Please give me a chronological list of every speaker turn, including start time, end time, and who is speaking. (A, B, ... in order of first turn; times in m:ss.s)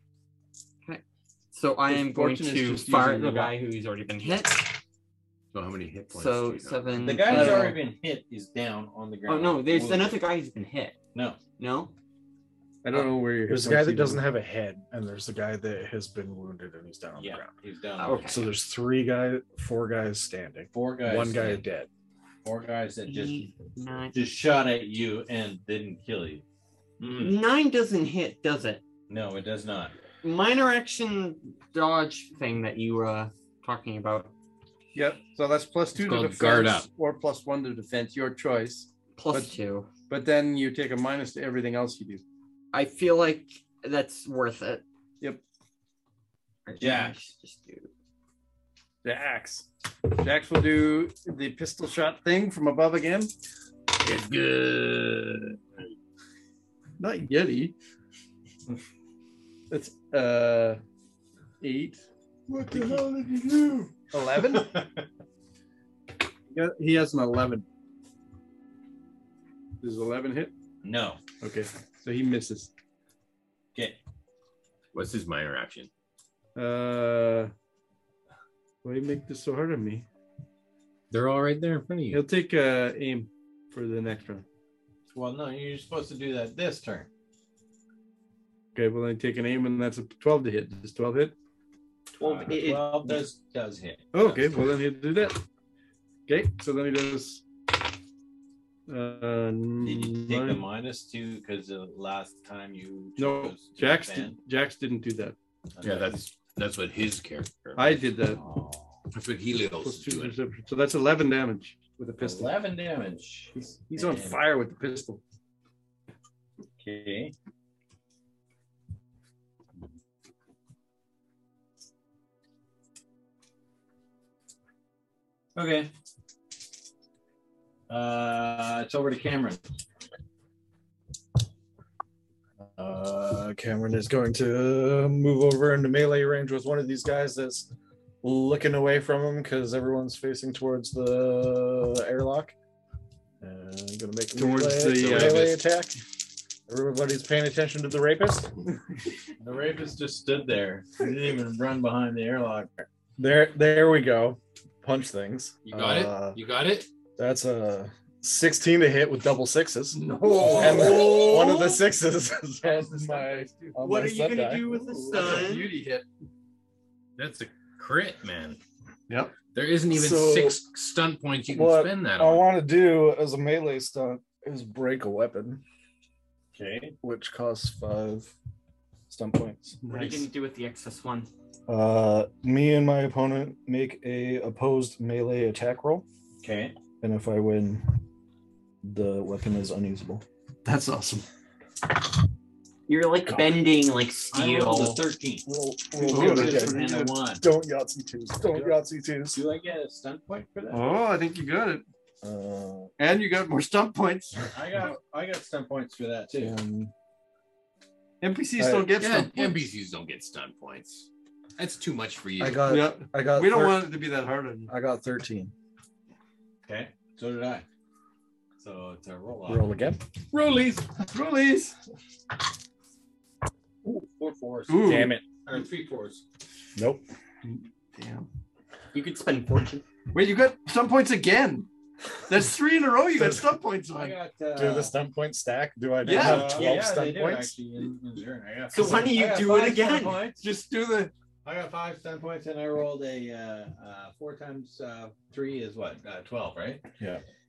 0:00.8-0:04.7 A
0:01.9-0:03.6 B
0:05.5-0:07.1 C
0:06.1-0:07.8 A
0:07.0-0:10.2 D
0:07.2-0:07.8 B
0:09.3-0:11.9 A
0:11.1-0:11.4 D
0:12.8-0:14.3 B
0:13.5-0:17.5 E
0:17.2-0:18.3 D
0:18.0-0:18.5 A
0:18.2-0:21.9 E
0:20.7-0:21.6 D
0:22.4-0:23.5 D
0:23.1-0:24.1 A
0:24.1-0:26.4 D
0:27.0-0:27.4 D
0:27.1-0:28.8 A
0:29.1-0:29.9 D
0:30.2-0:34.3 A
0:34.9-0:39.6 B
0:35.9-0:36.9 C
0:39.2-0:39.9 A
0:40.1-0:42.2 B
0:42.7-0:44.8 A
0:46.6-0:47.9 A
0:46.8-0:47.1 D
0:49.0-0:53.3 B
0:54.0-0:55.6 C
0:57.0-0:57.7 B
0:59.7-1:00.8 B
1:01.6-1:02.0 B
1:02.6-1:03.0 B
1:04.1-1:04.8 B
1:04.5-1:05.0 D
1:06.5-1:07.6 B
1:09.8-1:10.5 B
1:10.8-1:11.2 D
1:11.4-1:12.7 B
1:14.9-1:15.9 C
1:16.6-1:17.5 B
1:18.8-1:20.1 B
1:21.1-1:22.2 C
1:22.1-1:24.4 B
1:25.1-1:27.1 D
1:28.7-1:31.4 B
1:32.1-1:33.2 A
1:32.2-1:34.5 D
1:34.1-1:35.4 B
1:36.3-1:37.4 B
1:38.9-1:40.6 B
1:39.8-1:44.4 D
1:43.2-1:45.4 B
1:45.8-1:46.3 D
1:45.8-1:48.0 C
1:47.8-1:48.4 B
1:48.3-1:49.0 D
1:49.1-1:50.4 C
1:49.7-1:52.6 B
1:52.2-1:54.4 D
1:53.6-1:55.2 B
1:56.8-1:57.3 D
2:05.6-2:05.9 D
2:07.9-2:09.6 D
2:12.8-2:17.7 E
2:18.2-2:22.6 E
2:23.4-2:25.9 E
2:24.4-2:25.5 B
2:25.0-2:25.6 C
2:26.7-2:28.6 E
2:29.4-2:32.9 D
2:33.2-2:36.4 E
2:35.7-2:36.9 C
2:37.2-2:44.7 E
2:39.9-2:41.7 B
2:40.4-2:41.1 D
2:42.6-2:43.8 B
2:43.8-2:45.7 A
2:44.8-2:46.1 B
2:47.2-2:48.6 C
2:49.1-2:49.3 B
2:49.5-2:52.4 C
2:49.9-2:50.6 E
2:51.5-2:55.6 E
2:56.5-2:56.9 D
2:57.0-2:58.3 E
2:59.1-2:59.8 E
2:59.8-3:00.3 B
2:59.9-3:01.3 A
3:01.7-3:06.1 E
3:06.4-3:06.8 D
3:07.0-3:08.0 E
3:08.8-3:10.2 E
3:10.6-3:11.2 B
3:12.9-3:15.0 A
3:13.3-3:13.6 E
3:14.3-3:15.4 D
3:15.4-3:16.8 E
3:16.0-3:17.1 B
3:16.0-3:17.4 D
3:17.4-3:19.4 E
3:18.5-3:18.8 D
3:19.3-3:20.8 D
3:20.7-3:21.8 B
3:22.2-3:22.9 E
3:23.0-3:24.5 B
3:24.5-3:26.6 D
3:26.3-3:26.9 E
3:28.2-3:29.6 B
3:28.6-3:28.9 E
3:28.9-3:32.8 C
3:32.4-3:33.9 E
3:32.6-3:34.7 B
3:34.7-3:35.5 E
3:36.6-3:37.6 D
3:38.6-3:39.6 D
3:39.5-3:40.0 E
3:40.3-3:41.7 B
3:43.8-3:46.2 D
3:44.7-3:45.1 B
3:44.8-3:45.2 E
3:46.8-3:47.0 E
3:47.4-3:48.3 B
3:48.9-3:49.8 A
3:50.1-3:51.7 B
3:52.3-3:54.2 B
3:53.1-3:53.5 E
3:53.9-3:54.9 D
3:54.6-3:57.6 E
3:56.0-3:56.7 B
3:56.1-4:00.4 D
3:58.7-4:00.2 A
4:00.4-4:01.1 B
4:01.4-4:06.8 D